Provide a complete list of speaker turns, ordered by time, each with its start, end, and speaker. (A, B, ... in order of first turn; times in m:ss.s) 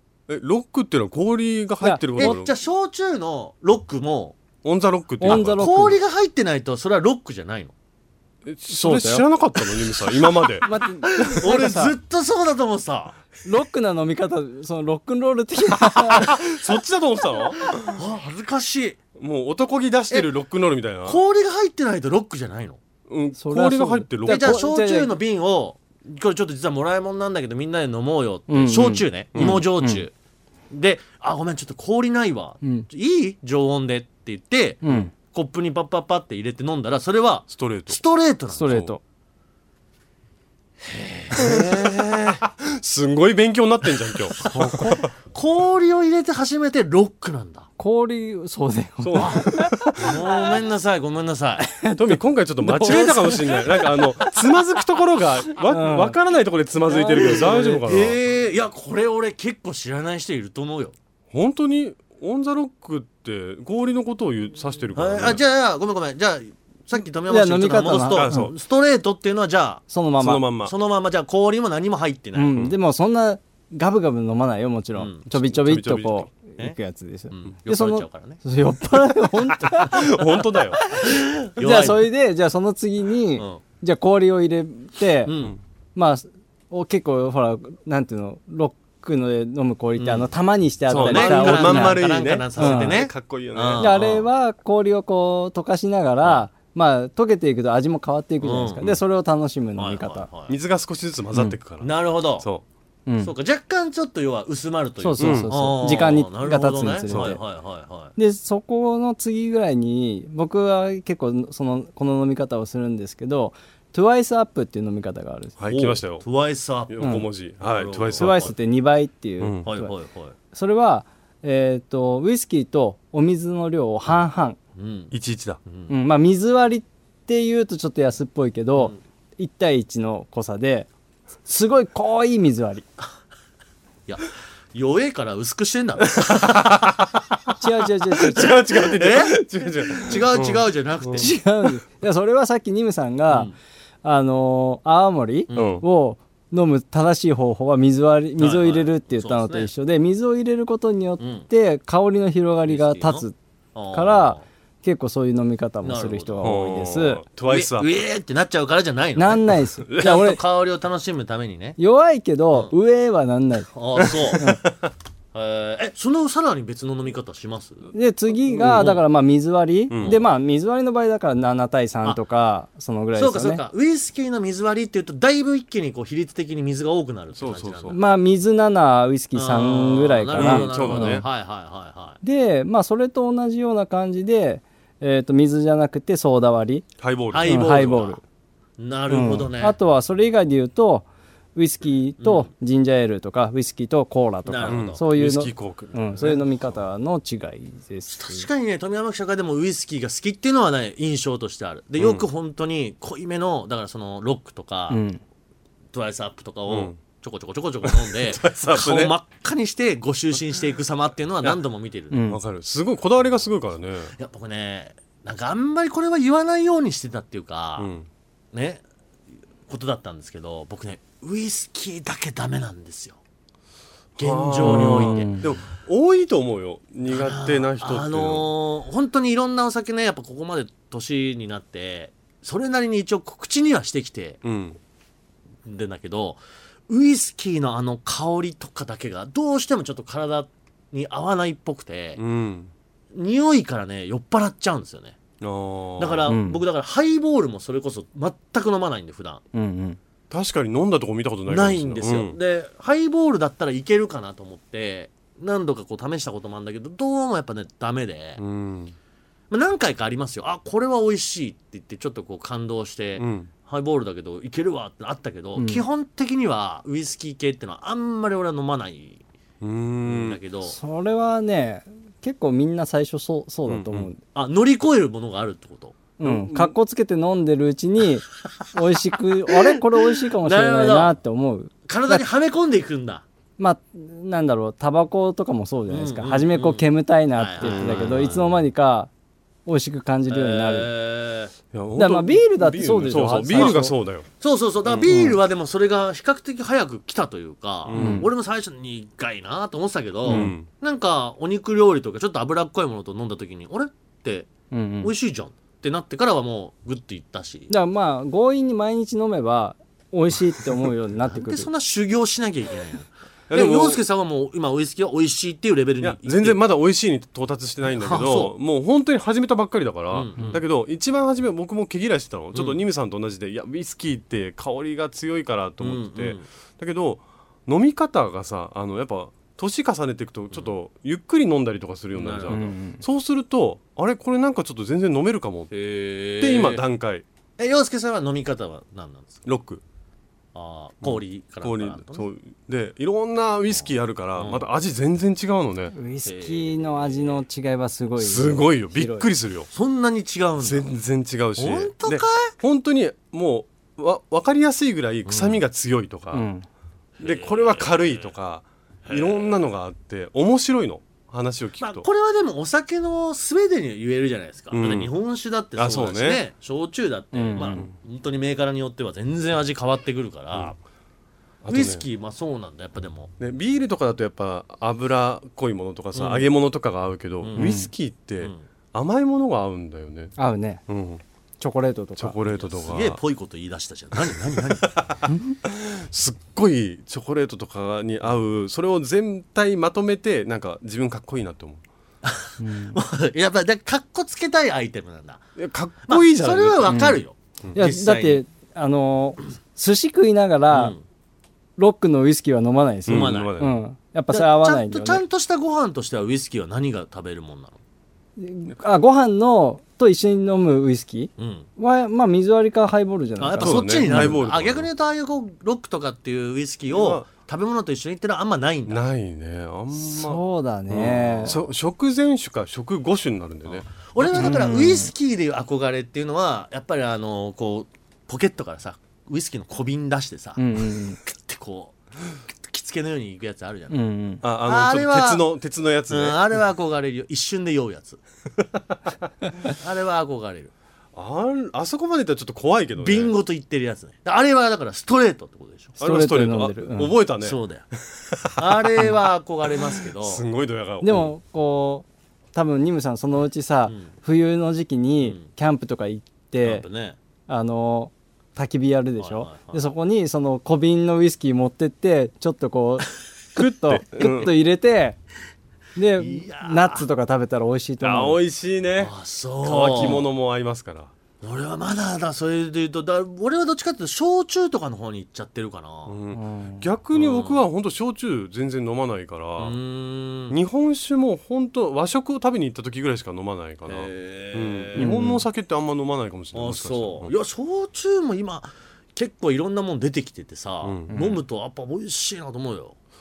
0:00.3-0:02.5 A
0:01.8-0:02.4 B
0:02.2-0:04.4 C
0:04.6-0:05.7 A
0:05.2-0:06.0 B
0:05.2-0:07.7 C
0:08.4-0:10.7 A
0:08.7-0:09.3 B
0:10.6-0:12.0 B
0:11.1-0:13.2 C
0:13.4-0:16.4 B
0:16.2-0:18.0 A
0:17.8-0:19.0 C
0:19.2-0:21.2 A
0:21.0-0:22.8 C
0:23.1-0:24.6 A
0:23.4-0:25.1 B
0:24.3-0:30.1 C
0:28.5-0:30.0 B
0:29.3-0:29.6 A
0:30.7-0:38.8 C
0:32.6-0:32.9 B
0:34.8-0:35.1 B
0:37.5-0:38.0 A
0:38.5-0:39.0 B
0:40.8-0:41.6 C
0:41.4-0:41.9 B
0:41.4-0:45.0 A
0:44.4-0:45.1 B
0:45.3-0:47.7 C
0:47.8-0:50.3 B
0:49.0-0:50.2 A
0:50.0-0:51.7 C
0:51.7-0:54.3 B
0:52.0-0:58.2 A
0:52.9-0:53.6 C
0:55.7-0:56.2 B
0:56.9-0:57.8 B
0:57.1-1:01.0 C
1:01.3-1:05.4 A
1:05.0-1:09.9 C
1:07.3-1:08.5 B
1:08.2-1:08.5 A
1:09.9-1:10.4 B
1:10.2-1:10.7 A
1:10.6-1:12.6 C
1:12.4-1:20.2 B
1:15.0-1:15.2 C
1:15.3-1:16.3 A
1:17.3-1:18.4 C
1:19.7-1:20.8 A
1:20.8-1:25.3 B
1:21.0-1:22.1 C
1:25.2-1:25.6 C
1:26.0-1:32.0 B
1:30.0-1:30.3 C
1:30.9-1:33.9 A
1:30.9-1:34.3 C
1:32.6-1:33.0 B
1:33.8-1:40.3 B
1:36.2-1:36.5 C
1:38.4-1:38.9 C
1:39.8-1:40.6 C
1:40.5-1:42.6 A
1:41.8-1:42.5 C
1:43.1-1:43.3 B
1:43.2-1:48.1 C
1:45.0-1:47.4 B
1:45.2-1:45.5 A
1:47.1-1:47.4 A
1:48.2-1:55.6 B
1:55.6-1:56.2 A
1:55.7-1:58.5 C
1:56.9-1:58.5 A
1:58.2-1:59.9 B
1:59.4-1:59.7 A
1:59.6-2:00.4 C
2:00.5-2:04.6 B
2:04.8-2:05.1 C
2:05.1-2:05.6 A
2:05.6-2:05.9 C
2:05.9-2:10.9 B
2:11.4-2:12.9 B
2:14.1-2:16.8 C
2:16.2-2:17.1 A
2:17.6-2:18.5 B
2:18.2-2:21.3 A
2:18.4-2:21.4 C
2:21.2-2:23.5 B
2:23.3-2:23.6 C
2:24.0-2:33.4 B
2:25.5-2:25.8 C
2:25.5-2:25.8 A
2:28.4-2:29.7 C
2:31.2-2:31.5 C
2:32.7-2:34.4 C
2:33.9-2:37.2 B
2:35.8-2:36.5 C
2:36.4-2:37.9 A
2:37.5-2:41.8 C
2:39.2-2:40.4 B
2:41.8-2:44.6 B
2:43.7-2:44.5 C
2:44.4-2:44.9 A
2:45.3-2:47.9 C
2:47.9-2:53.6 B
2:48.6-2:48.9 A
2:48.6-2:49.0 C
2:49.9-2:50.2 A
2:53.2-2:58.0 C
2:57.4-2:58.0 A
2:57.9-3:01.2 B
2:59.4-3:02.2 C
3:00.4-3:01.2 A
3:02.2-3:06.8 B
3:07.0-3:08.0 A
3:07.3-3:08.2 C
3:07.4-3:08.2 B
3:08.8-3:09.8 C
3:09.1-3:18.5 B
3:12.2-3:12.5 C
3:14.5-3:15.0 C
3:14.7-3:16.8 A
3:18.1-3:25.0 C
3:22.0-3:22.3 A
3:24.9-3:25.2 B
3:25.9-3:32.2 C
3:26.7-3:27.0 A
3:27.8-3:29.1 A
3:32.1-3:32.4 B
3:32.3-3:34.1 A
3:34.2-3:37.9 C
3:37.8-3:38.1 A
3:38.5-3:38.8 C
3:39.7-3:43.2 C
3:44.2-3:45.4 C
3:44.2-3:48.5 A
3:44.6-3:45.5 B
3:47.1-3:54.4 C
3:54.4-3:54.8 A
3:55.6-4:02.2 C
4:02.2-4:02.7 A
4:03.1-4:05.2 C
4:05.4-4:06.3 A
4:06.0-4:09.4 C
4:06.3-4:06.6 B
4:09.5-4:10.0 B
4:10.3-4:12.4 A
4:11.5-4:18.4 C
4:18.4-4:19.0 A
4:19.5-4:29.2 C
4:23.2-4:23.5 A
4:25.6-4:25.9 B
4:29.6-4:30.4 A
4:30.0-4:30.8 C
4:30.7-4:34.2 B
4:33.7-4:34.1 A
4:34.4-4:36.0 C
4:36.2-4:42.2 B
4:36.2-4:36.8 A
4:39.5-4:39.8 C
4:40.4-4:41.2 C
4:41.9-4:43.2 C
4:43.6-4:49.1 B
4:45.9-4:48.5 C
4:47.6-4:48.4 A
4:49.7-4:50.9 B
4:50.3-4:51.5 C
4:51.7-4:54.3 A
4:52.0-4:53.9 B
4:53.5-4:53.9 C
4:54.4-5:04.5 C
4:55.1-4:55.4 B
4:57.9-4:58.3 A
4:57.9-4:58.3 B
5:00.3-5:00.5 B
5:00.3-5:00.7 A
5:04.7-5:05.1 B
5:05.0-5:07.7 C
5:07.7-5:11.7 B
5:11.3-5:16.6 C
5:13.5-5:14.0 A
5:16.0-5:35.7 A
5:17.9-5:18.5 C
5:20.1-5:20.6 C
5:25.8-5:26.4 C
5:32.1-5:32.7 C
5:32.5-5:33.0 B
5:35.7-5:36.8 C
5:36.4-5:37.2 A
5:37.6-5:39.5 C
5:39.5-5:39.8 A
5:40.6-5:42.3 C
5:41.0-5:45.9 A
5:43.7-5:44.7 C
5:45.9-5:49.3 B
5:46.2-5:47.4 C
5:48.2-5:49.7 A
5:49.7-5:50.9 C
5:50.6-5:56.5 A
5:51.6-5:52.5 C
5:55.3-5:55.6 C
5:56.3-5:56.7 B
5:57.2-5:58.3 C
5:57.2-6:02.1 A
5:59.1-5:59.6 C
6:01.8-6:10.8 C
6:04.7-6:05.1 A
6:05.8-6:06.4 A
6:07.3-6:07.9 B
6:11.6-6:12.0 A
6:11.7-6:13.3 C
6:13.4-6:20.4 A
6:16.1-6:16.5 C
6:17.4-6:17.7 C
6:17.6-6:17.9 B
6:18.4-6:18.7 C
6:20.4-6:20.8 B
6:20.9-6:21.2 A
6:21.6-6:22.4 B
6:22.2-6:23.2 A
6:22.5-6:25.1 C
6:24.4-6:31.8 A
6:25.3-6:25.6 B
6:32.2-6:35.4 C
6:32.6-6:33.0 B
6:35.6-6:37.8 A
6:36.1-6:38.4 C
6:36.9-6:37.2 B
6:37.8-6:41.0 B
6:40.7-6:41.0 C
6:41.8-6:45.2 B
6:43.1-6:43.8 A
6:43.1-6:43.6 C
6:44.3-6:47.8 C
6:48.4-6:54.4 B
6:51.4-6:51.7 C
6:53.4-6:59.0 C
6:53.6-6:54.9 A
6:56.9-6:57.2 A
6:58.9-7:04.6 A
6:59.9-7:01.6 B
7:01.2-7:01.7 C
7:03.7-7:10.6 C
7:04.4-7:05.1 B
7:10.6-7:11.2 B
7:11.2-7:12.0 C
7:12.6-7:14.0 C
7:13.9-7:14.4 B
7:14.4-7:16.4 A
7:14.6-7:15.4 C
7:16.1-7:18.2 C
7:19.7-7:20.7 C
7:21.2-7:23.3 A
7:23.0-7:26.0 C
7:26.0-7:27.2 B
7:26.0-7:29.1 A
7:27.4-7:27.8 C
7:28.6-7:30.5 C
7:30.2-7:31.3 A
7:31.0-7:36.8 B
7:36.6-7:37.2 C
7:37.5-7:45.2 B
7:39.2-7:39.9 C
7:43.6-7:44.5 A
7:46.0-7:48.4 B
7:46.2-7:47.1 C
7:48.0-7:51.1 A
7:49.0-7:50.3 C
7:51.4-7:56.2 C
7:56.1-7:59.8 A
7:56.3-7:56.9 B
7:57.1-7:57.6 C
7:59.6-8:00.6 C
8:00.5-8:07.3 A
8:03.9-8:05.2 C
8:05.0-8:05.4 B
8:06.5-8:13.0 C
8:10.8-8:11.2 A
8:11.1-8:11.4 B